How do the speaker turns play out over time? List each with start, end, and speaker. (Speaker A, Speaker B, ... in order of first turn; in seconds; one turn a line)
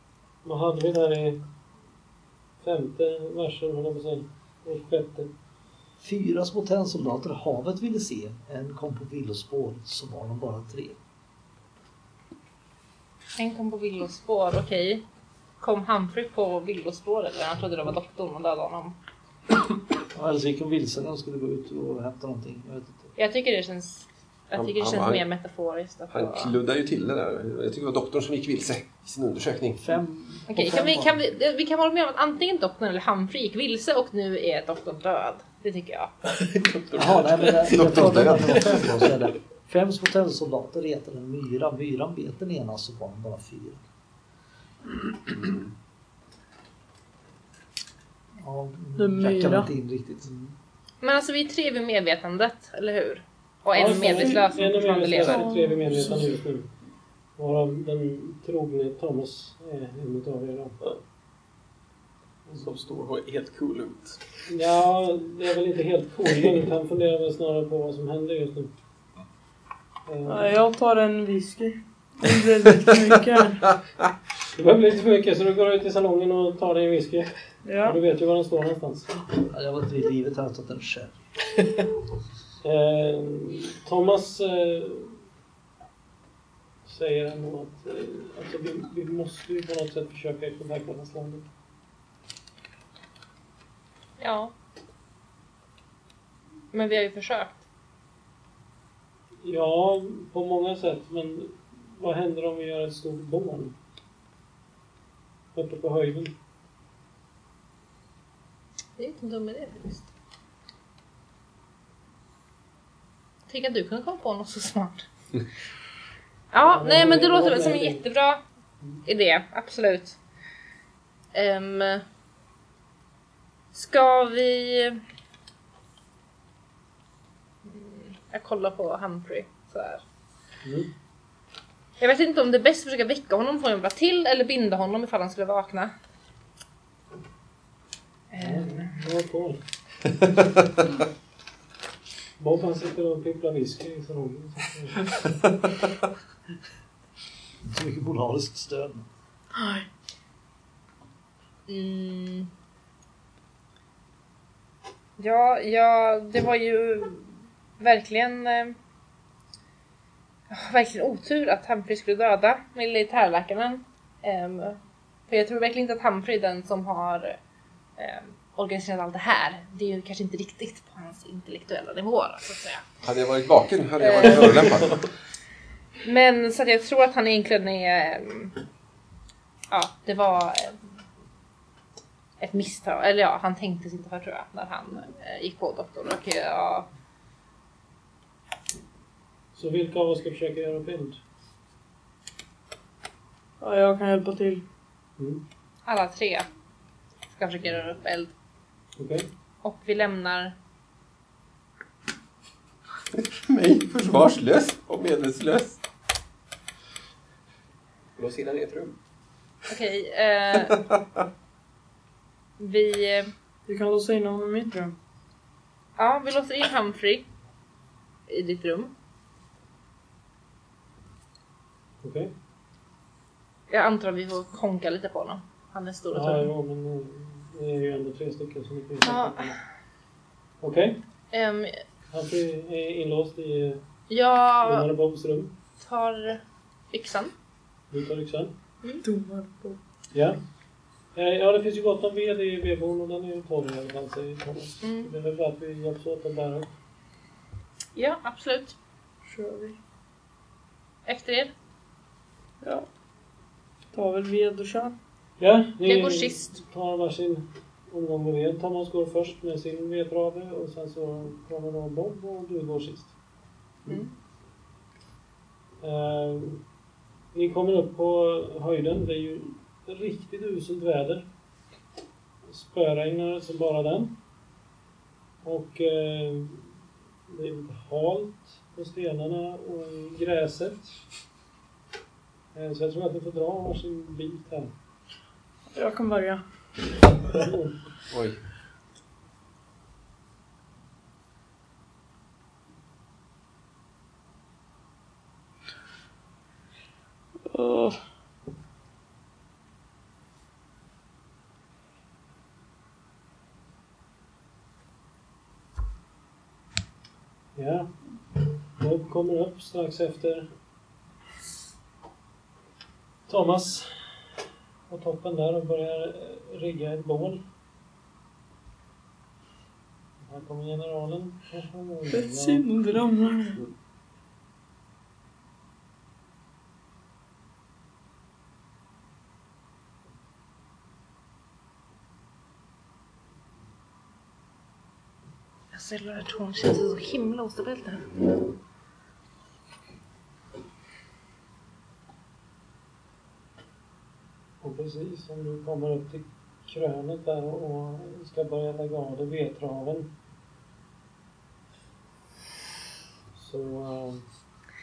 Speaker A: 0.4-1.4
Speaker A: 2.6-5.3
Speaker B: 6.0-11.0
Speaker C: 13.4-15.0
Speaker C: 15.6-19.0
Speaker B: 20.1-23.1
Speaker C: 23.2-26.5
Speaker D: 24.5-25.2
Speaker D: 26.1-29.8
Speaker B: 29.8-31.2
Speaker C: 30.5-36.1
Speaker E: 36.2-38.8
Speaker B: 37.0-43.8
Speaker D: 37.7-38.8
Speaker B: 48.4-50.3
Speaker F: 49.0-49.7
Speaker C: 51.0-55.4
Speaker A: 53.8-56.6
Speaker F: 53.8-56.3
Speaker A: 57.4-60.8
Speaker A: 62.5-62.7
Speaker E: 62.6-64.2
Speaker A: 64.5-68.7
Speaker A: 70.1-70.5
Speaker F: 70.3-73.6
Speaker A: 74.6-77.3
Speaker F: 77.7-78.0
Speaker A: 77.8-79.1
Speaker B: 79.5-81.1
Speaker A: 82.6-85.1
Speaker A: 86.8-91.5
Speaker C: 94.2-94.5
Speaker C: 96.7-97.6
Speaker A: 99.4-103.8
Speaker A: 105.5-106.3
Speaker C: 109.0-110.1
Speaker C: 113.5-115.1
Speaker C: 116.5-118.4
Speaker A: 116.7-118.0
Speaker C: 119.0-120.2
Speaker C: 121.3-122.0
Speaker C: 123.7-125.0
Speaker C: 127.7-130.0
Speaker A: 130.6-130.9
Speaker C: 132.0-135.9
Speaker C: 138.3-139.0
Speaker A: 138.4-139.6
Speaker A: 142.4-145.1
Speaker B: 147.6-149.1
Speaker F: 149.6-149.9
Speaker C: 151.7-152.5
Speaker C: 155.2-158.8
Speaker C: 160.5-164.8
Speaker C: 165.3-167.4
Speaker C: 168.0-172.8
Speaker D: 173.0-175.1
Speaker C: 174.0-174.6
Speaker C: 176.0-178.6
Speaker C: 179.7-180.8
Speaker C: 182.4-186.9
Speaker A: 189.5-191.2
Speaker F: 193.6-194.6
Speaker A: 195.2-195.4
Speaker C: 195.9-196.5
Speaker C: 197.3-198.3
Speaker A: 199.0-199.3
Speaker C: 199.6-200.6
Speaker D: 203.1-205.8
Speaker E: 208.2-209.0
Speaker C: 209.7-210.8
Speaker C: 212.6-213.3
Speaker F: 213.7-214.9
Speaker C: 216.0-217.3
Speaker C: 218.3-218.9
Speaker A: 222.0-222.3
Speaker C: 223.7-226.5
Speaker A: 226.1-229.6
Speaker C: 229.0-229.6
Speaker A: 230.6-231.0
Speaker C: 231.3-231.8
Speaker A: 232.1-233.8
Speaker C: 234.1-234.9
Speaker A: 234.6-235.5
Speaker C: 235.8-236.4
Speaker C: 236.9-237.3
Speaker A: 237.9-238.5
Speaker F: 239.0-239.8
Speaker A: 240.1-240.4
Speaker A: 241.2-246.7
Speaker C: 244.8-245.1
Speaker C: 248.0-248.8
Speaker F: 249.3-249.8
Speaker C: 251.1-251.5
Speaker F: 252.6-252.9
Speaker F: 253.9-254.9
Speaker A: 255.4-263.1
Speaker C: 255.8-256.6
Speaker A: 265.8-266.6
Speaker A: 267.3-271.2
Speaker A: 272.5-274.1
Speaker A: 275.4-276.6
Speaker A: 277.3-281.0
Speaker A: 282.5-284.7
Speaker F: 285.7-286.4
Speaker A: 287.4-287.8
Speaker D: 288.1-288.4
Speaker F: 297.5-298.0
Speaker A: 307.6-307.9
Speaker A: 308.8-310.5
Speaker A: 313.3-313.9
Speaker A: 314.9-317.4
Speaker A: 320.2-322.6
Speaker F: 322.1-323.6
Speaker C: 335.7-338.1
Speaker A: 344.6-350.1
Speaker A: 353.3-354.2